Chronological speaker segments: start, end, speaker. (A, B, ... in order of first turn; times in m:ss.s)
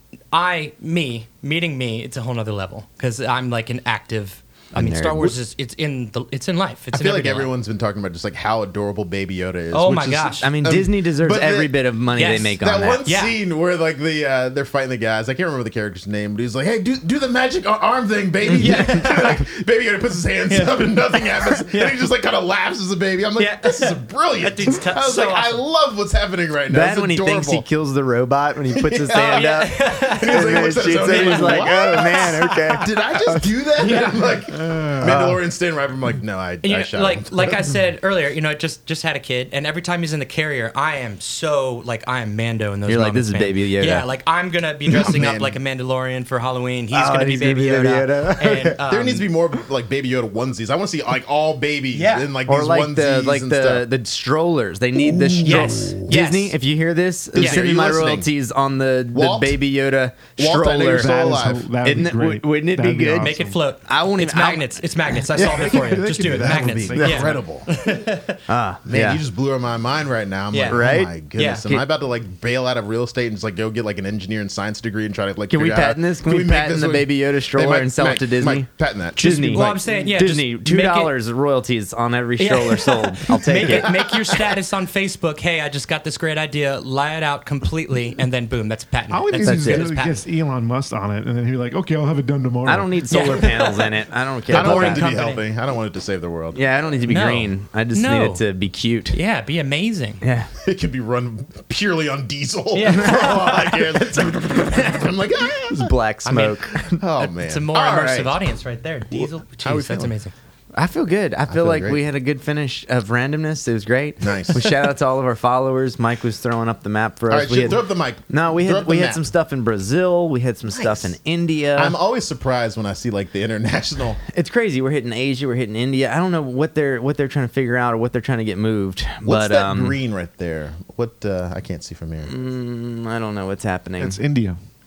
0:00.3-0:07.5 A
0:04.7-0:05.3 B
0:06.9-0:11.7 C
0:09.7-0:10.5 A
0:10.4-0:13.0 B
0:12.1-0:13.4 A
0:12.6-0:27.6 C
0:18.4-0:19.4 A
0:20.5-0:22.1 A
0:23.4-0:25.6 A
0:26.7-0:33.5 B
0:28.7-0:37.7 C
0:29.1-0:32.8 A
0:33.8-0:34.3 A
0:34.5-0:35.2 D
0:35.0-0:35.4 B
0:36.6-0:49.3 A
0:42.9-0:44.0 B
0:44.9-0:45.6 C
0:46.9-0:48.8 B
0:48.9-0:53.9 C
0:51.9-0:52.3 A
0:52.5-1:01.2 B
0:54.9-0:56.1 C
0:55.4-0:56.6 A
0:57.3-0:58.3 C
0:57.4-0:57.6 A
0:59.1-0:59.6 C
1:00.4-1:01.7 C
1:00.9-1:03.6 D
1:01.8-1:05.6 B
1:03.2-1:08.4 A
1:05.3-1:07.7 C
1:05.7-1:07.2 D
1:08.5-1:09.2 B
1:08.8-1:20.0 C
1:10.5-1:10.8 A
1:10.7-1:11.1 B
1:11.4-1:11.8 A
1:15.5-1:24.0 B
1:19.5-1:21.1 A
1:22.4-1:30.2 A
1:23.7-1:24.0 C
1:29.1-1:33.3 D
1:29.4-1:29.9 B
1:32.6-1:35.1 B
1:33.1-1:35.4 A
1:34.5-1:36.6 C
1:36.5-1:39.2 B
1:37.0-1:38.4 A
1:39.1-1:40.2 A
1:40.2-1:40.5 B
1:40.6-1:45.9 C
1:42.7-1:43.8 A
1:42.8-1:43.5 B
1:45.7-1:47.0 B
1:46.2-1:50.3 A
1:46.9-1:48.4 C
1:49.1-1:50.1 C
1:50.7-2:02.0 B
1:51.5-1:52.0 C
1:54.2-1:54.6 C
1:57.3-1:59.2 C
2:00.7-2:01.1 C
2:01.8-2:04.2 C
2:04.3-2:10.0 B
2:09.2-2:12.3 C
2:12.2-2:14.2 B
2:14.0-2:14.6 D